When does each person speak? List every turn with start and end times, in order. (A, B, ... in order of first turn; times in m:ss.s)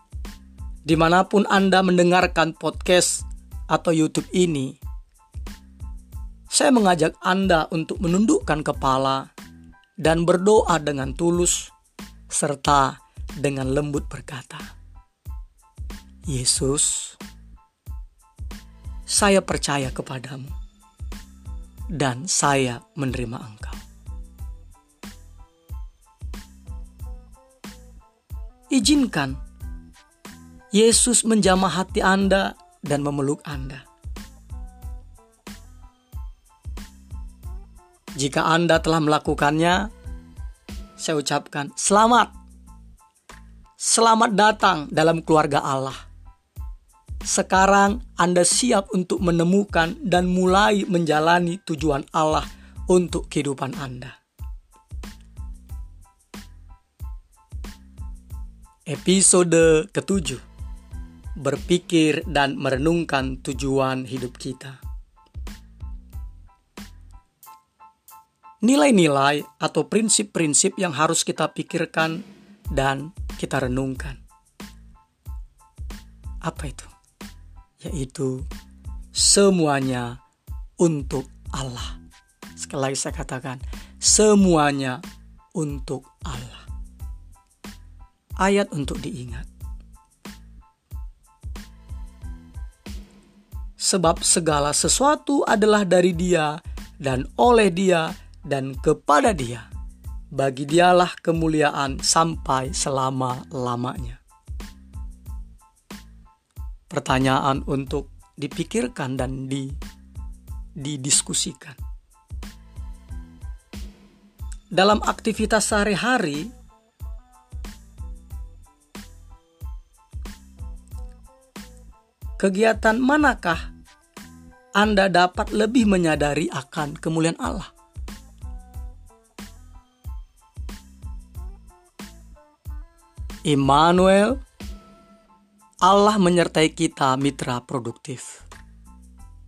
0:00.9-0:04.8 A
0:06.5-0:09.3 A
0:10.0-0:11.7 A
0:12.3-0:14.7 A
0:16.3-0:17.2 A
0:19.1-0:20.5 A
0:22.0-0:23.8 A
0:28.7-0:29.4 A
0:30.7-0:33.8 A
0:38.2-0:39.9 A
0:41.0-0:42.3 A
0:43.8-0:46.0 A
0:47.3-0:54.2 A
0:58.9-1:00.4 A
1:01.4-1:04.8 A
1:08.6-1:12.2 A
1:12.7-1:14.2 A
1:16.4-1:16.9 A
1:17.8-1:18.4 A
1:19.1-1:20.2 A
1:20.8-1:22.0 A
1:22.6-1:25.0 A
1:25.6-1:26.6 A
1:28.4-1:29.5 A
1:33.8-1:39.7 A
1:40.3-1:44.2 A
1:46.9-1:49.8 A
1:50.8-1:51.8 A
1:54.7-1:56.5 A
2:02.4-2:03.7 A
2:04.8-2:07.7 A
2:13.5-2:14.4 A
2:15.8-2:18.4 A